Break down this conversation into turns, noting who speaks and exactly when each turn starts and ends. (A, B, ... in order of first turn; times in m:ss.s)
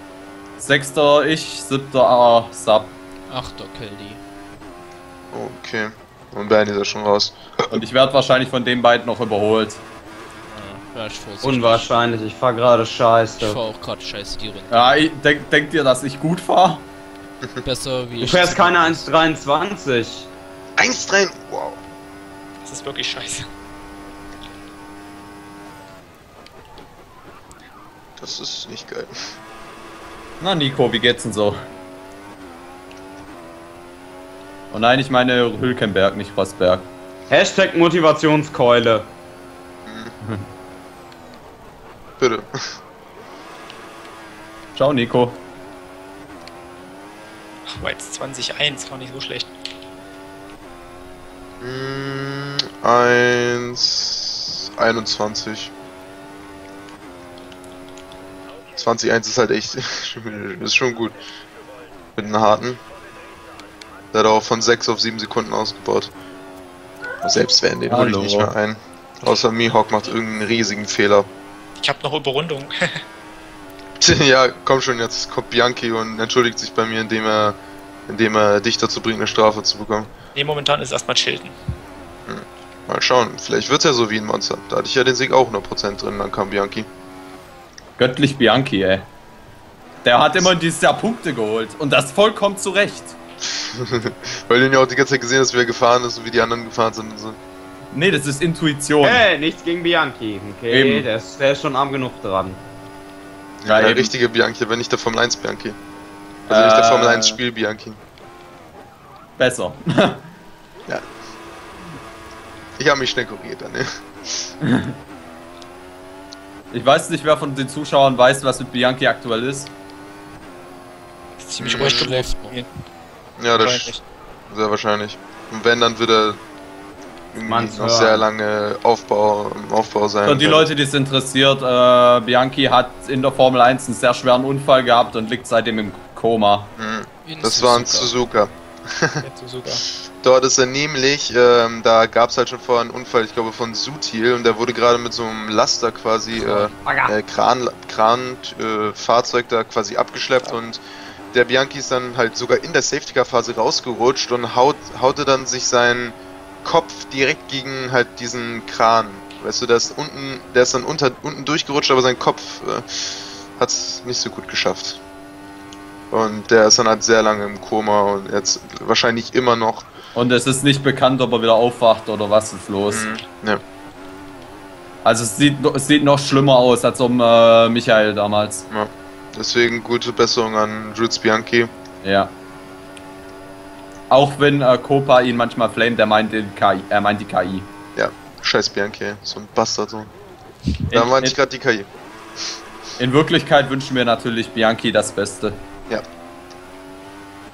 0:00.6-0:03.0 A
0:03.3-0:04.2 B
0:05.3-0:07.4 C
0:07.7-0:09.8 A
0:10.5-0:11.9 B
0:11.4-0:13.6 D
0:13.4-0:15.1 B
0:14.7-0:16.9 A
0:17.6-0:19.1 B
0:18.2-0:20.3 D
0:20.8-0:21.8 C
0:22.6-0:23.5 E
0:28.2-0:29.2 C
0:30.4-0:31.6 A
0:34.7-0:36.9 A
0:37.3-0:39.1 D
0:39.9-0:40.1 C
0:42.2-0:42.5 C
0:44.8-0:45.4 A
0:47.7-0:49.5 E
0:51.6-0:55.7 C
0:58.8-1:01.2 C
1:02.2-1:02.8 C
1:04.1-1:06.1 C
1:07.2-1:11.3 C
1:07.9-1:08.5 A
1:11.8-1:13.0 E
1:14.0-1:20.1 C
1:20.4-1:21.5 E
1:22.3-1:26.9 C
1:28.0-1:29.1 A
1:30.0-1:33.2 A
1:33.5-1:37.4 C
1:37.9-1:39.3 A
1:39.0-1:42.6 D
1:40.7-1:41.1 A
1:43.6-1:45.8 C
1:43.6-1:44.1 A
1:46.5-1:47.4 A
1:46.5-1:48.0 C
1:49.4-1:50.3 A
1:52.8-1:54.5 C
1:54.6-1:55.0 A
1:56.7-1:59.7 A
2:01.4-2:02.7 E
2:01.6-2:02.1 C
2:01.7-2:02.6 B
2:03.4-2:03.9 C
2:03.6-2:04.0 E
2:04.5-2:06.4 C
2:07.3-2:10.7 C
2:07.4-2:08.3 D
2:10.2-2:16.7 A
2:16.8-2:19.2 C
2:17.2-2:18.1 B
2:19.2-2:19.8 E
2:20.2-2:30.8 C
2:26.4-2:26.8 B
2:26.8-2:27.1 D
2:31.3-2:45.0 C
2:46.1-2:49.9 C
2:50.1-2:53.1 A
2:52.9-2:53.6 C
2:55.0-2:58.7 A
2:58.7-3:01.7 C
3:02.0-3:02.3 A
3:04.1-3:07.7 A
3:08.0-3:10.1 C
3:10.9-3:11.4 A
3:10.9-3:11.9 C
3:13.0-3:15.6 A